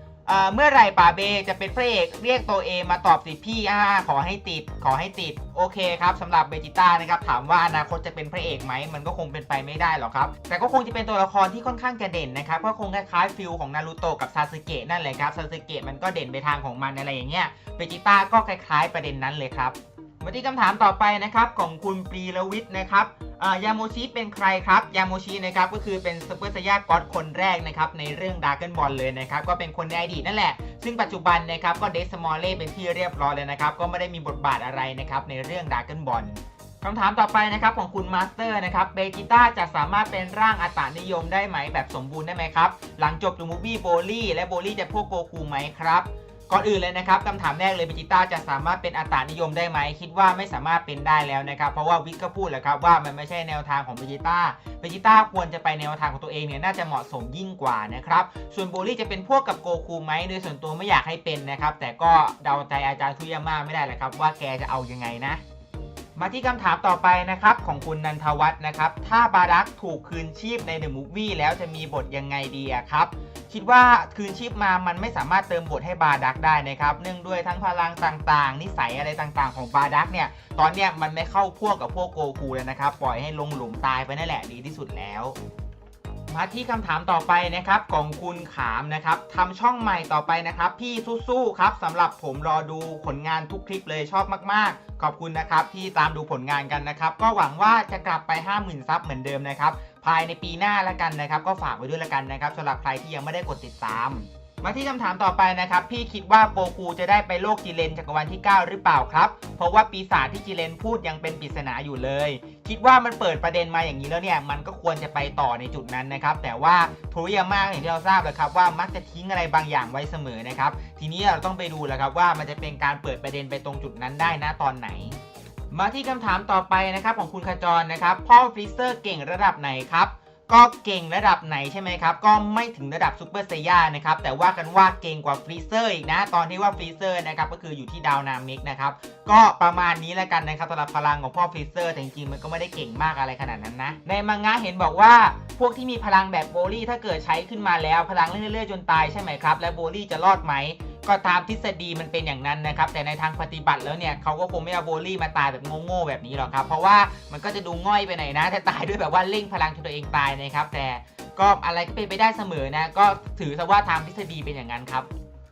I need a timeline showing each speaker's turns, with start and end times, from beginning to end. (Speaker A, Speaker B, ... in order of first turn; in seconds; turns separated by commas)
Speaker A: 0.3-65.4, Speaker A: 66.2-85.4, Speaker A: 86.3-125.2, Speaker A: 125.7-165.1